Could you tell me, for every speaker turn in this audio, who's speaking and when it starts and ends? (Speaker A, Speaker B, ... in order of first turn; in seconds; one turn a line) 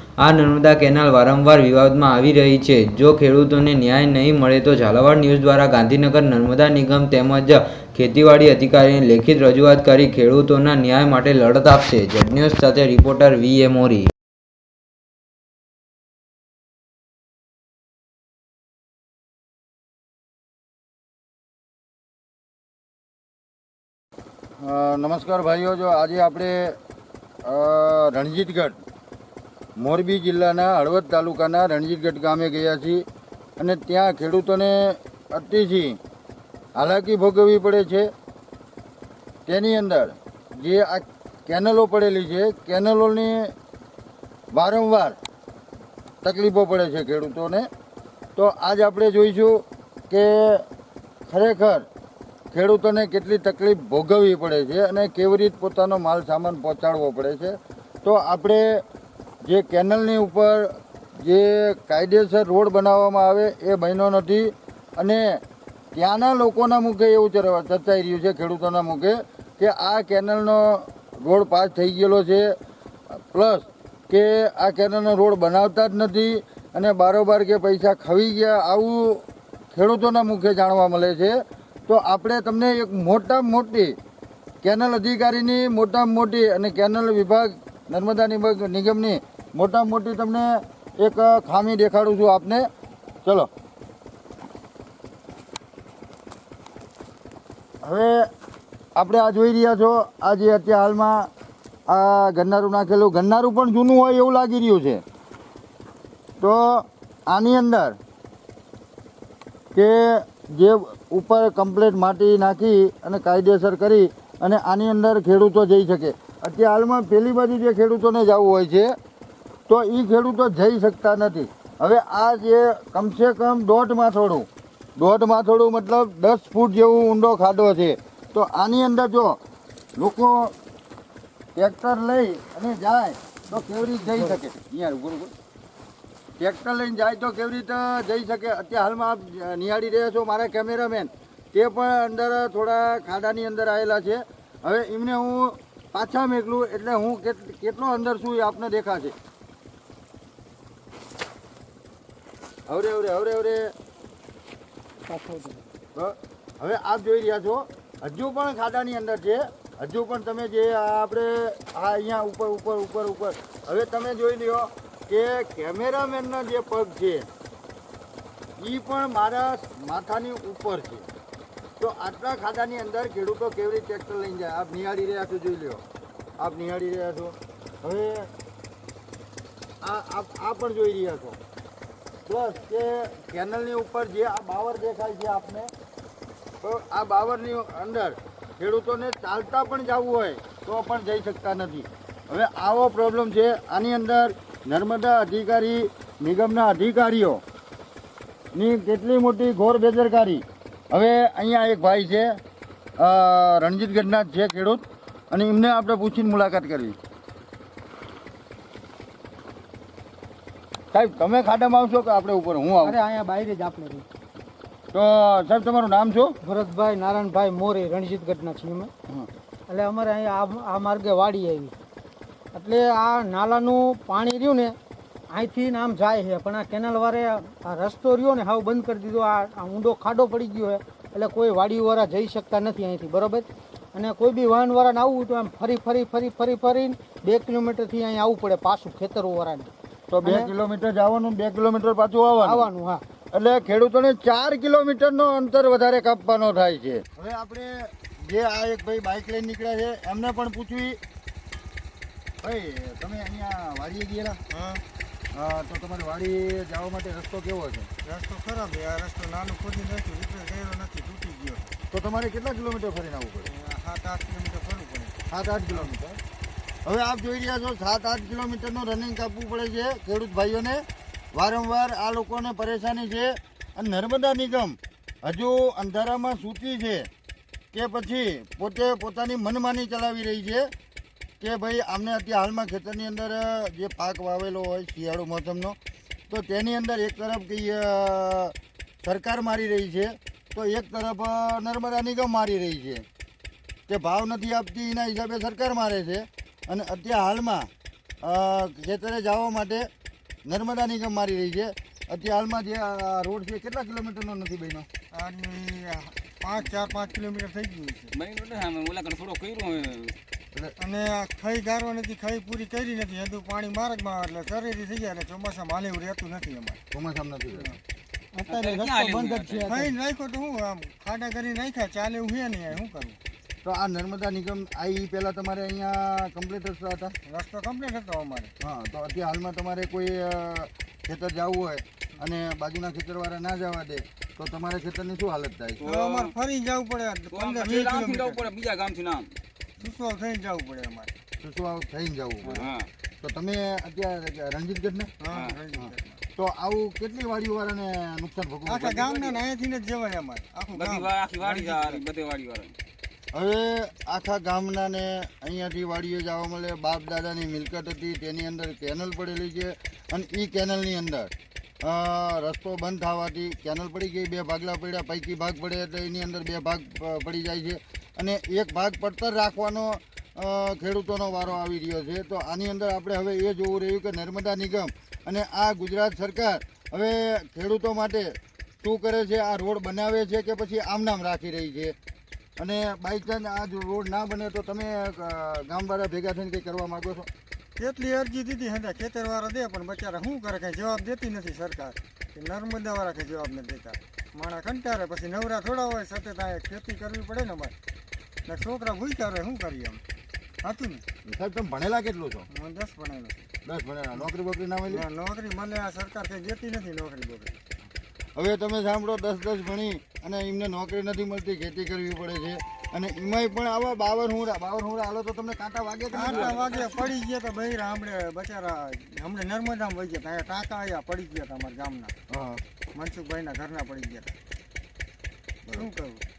Speaker A: 0.2-14.1
Speaker B: 24.6-26.8
Speaker B: 27.4-28.8
Speaker B: 29.8-33.0
Speaker B: 33.6-36.0
Speaker B: 36.8-38.1
Speaker B: 39.5-43.5
Speaker B: 44.5-45.2
Speaker B: 46.2-47.7
Speaker B: 48.4-50.6
Speaker B: 51.3-51.9
Speaker B: 52.5-58.8
Speaker B: 59.5-65.4
Speaker B: 65.9-72.5
Speaker B: 73.2-84.0
Speaker B: 84.6-92.7
Speaker B: 97.8-98.2
Speaker B: 99.0-101.3
Speaker B: 101.9-105.0
Speaker B: 106.4-108.0
Speaker B: 109.8-118.9
Speaker B: 119.7-129.4
Speaker B: 130.0-130.5
Speaker B: 131.6-135.3
Speaker C: 133.9-134.4
Speaker B: 136.4-149.2
Speaker B: 152.7-153.7
Speaker C: 155.1-155.7
Speaker B: 155.9-167.3
Speaker B: 168.6-171.1
Speaker B: 171.8-175.8
Speaker B: 176.4-178.3
Speaker B: 179.8-181.4
Speaker B: 182.3-185.7
Speaker B: 186.6-197.4
Speaker B: 198.6-202.3
Speaker B: 203.0-207.0
Speaker B: 210.9-213.0
Speaker C: 212.8-214.1
Speaker B: 214.9-216.3
Speaker C: 216.4-218.9
Speaker C: 219.7-221.7
Speaker C: 222.5-224.8
Speaker C: 225.3-239.7
Speaker B: 240.1-242.7
Speaker C: 240.2-240.5
Speaker C: 242.4-243.0
Speaker B: 243.3-251.0
Speaker B: 252.4-254.4
Speaker D: 254.5-254.8
Speaker B: 255.3-257.9
Speaker D: 258.0-261.7
Speaker B: 261.9-263.5
Speaker D: 263.5-265.9
Speaker B: 265.3-266.2
Speaker B: 266.9-270.8
Speaker B: 271.3-277.1
Speaker B: 277.7-280.7
Speaker B: 281.4-285.8
Speaker B: 286.3-293.1
Speaker B: 293.9-297.7
Speaker B: 298.2-299.9
Speaker B: 300.5-304.9
Speaker D: 305.1-308.2
Speaker E: 306.6-306.9
Speaker E: 308.1-310.2
Speaker D: 310.8-316.8
Speaker B: 316.9-317.8
Speaker C: 318.3-319.9
Speaker E: 318.5-319.7
Speaker D: 319.6-323.2
Speaker B: 323.6-327.1
Speaker D: 327.3-328.5
Speaker B: 328.6-335.9
Speaker E: 335.8-336.3
Speaker D: 335.8-338.5
Speaker E: 337.3-339.4
Speaker D: 339.8-341.1
Speaker B: 341.4-342.7
Speaker E: 342.5-342.9
Speaker B: 343.2-345.1
Speaker D: 345.2-346.2
Speaker B: 345.8-349.1
Speaker D: 348.7-352.1
Speaker E: 349.0-349.4
Speaker E: 350.7-352.8
Speaker B: 353.3-361.3
Speaker B: 361.8-382.0
Speaker B: 382.6-387.3
Speaker D: 387.8-397.7
Speaker D: 398.5-400.0
Speaker D: 400.6-401.0
Speaker B: 401.3-402.5
Speaker D: 402.5-403.5
Speaker B: 403.6-405.1
Speaker D: 404.9-407.6
Speaker B: 408.4-417.1
Speaker D: 416.1-422.1
Speaker B: 422.3-422.6
Speaker D: 422.9-424.4
Speaker B: 425.7-425.9
Speaker D: 425.7-426.2